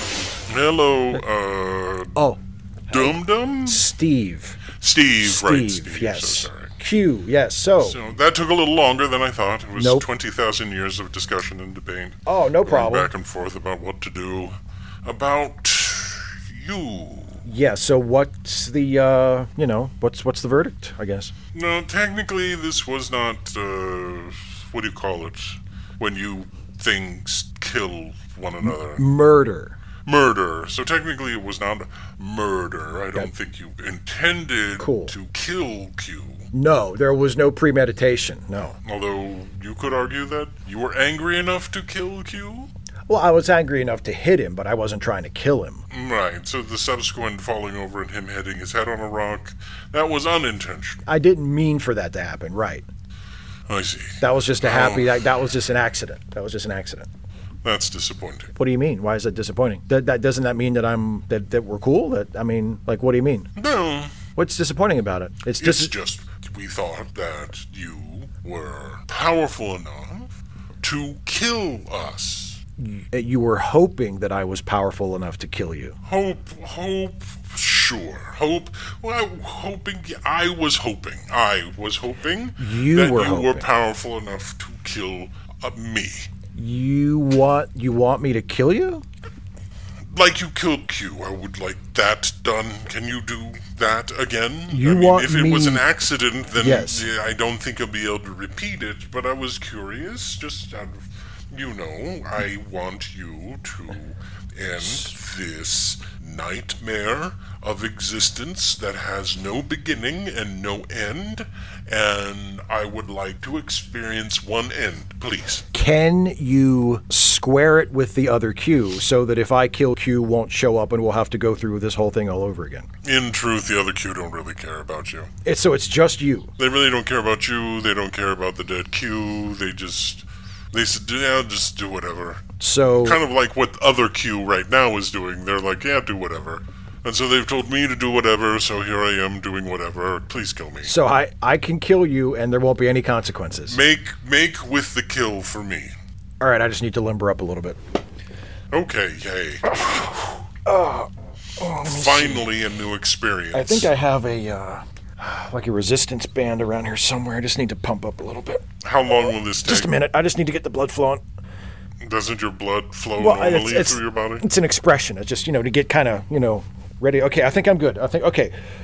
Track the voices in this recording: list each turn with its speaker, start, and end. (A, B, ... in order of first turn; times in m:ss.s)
0:00.5-0:02.2 A
0:02.1-0:04.6 B
0:02.9-0:03.8 A
0:04.7-0:06.7 A
0:05.2-0:08.0 B
0:07.8-0:17.4 A
0:09.8-0:10.0 B
0:12.2-0:13.1 B
0:17.4-0:21.3 B
0:21.5-0:29.1 A
0:28.6-0:29.8 B
0:30.0-0:36.5 A
0:34.8-0:35.1 B
0:36.5-0:38.8 B
0:38.8-0:42.7 A
0:43.1-0:45.8 B
0:45.9-0:51.0 A
0:51.0-0:52.8 B
0:53.7-0:55.1 A
0:54.2-0:57.1 B
0:57.6-0:58.5 A
0:58.6-1:03.5 B
1:03.6-1:04.2 A
1:04.4-1:05.9 B
1:05.6-1:12.6 A
1:12.8-1:16.0 B
1:16.0-1:26.3 A
1:22.6-1:23.7 B
1:26.5-1:29.0 B
1:30.1-1:55.6 A
1:34.7-1:35.8 B
1:36.5-1:37.1 B
1:44.8-1:45.1 B
1:55.7-2:02.9 B
2:03.0-2:05.3 A
2:05.4-2:06.5 B
2:06.6-2:12.4 A
2:12.6-2:13.2 B
2:13.0-2:20.9 A
2:20.8-2:23.8 B
2:23.7-2:25.9 A
2:26.4-2:27.8 B
2:28.7-2:29.8 A
2:29.6-2:32.4 B
2:31.8-2:33.9 A
2:33.5-2:41.2 B
2:38.8-2:39.9 A
2:42.0-2:44.4 A
2:43.2-2:48.5 B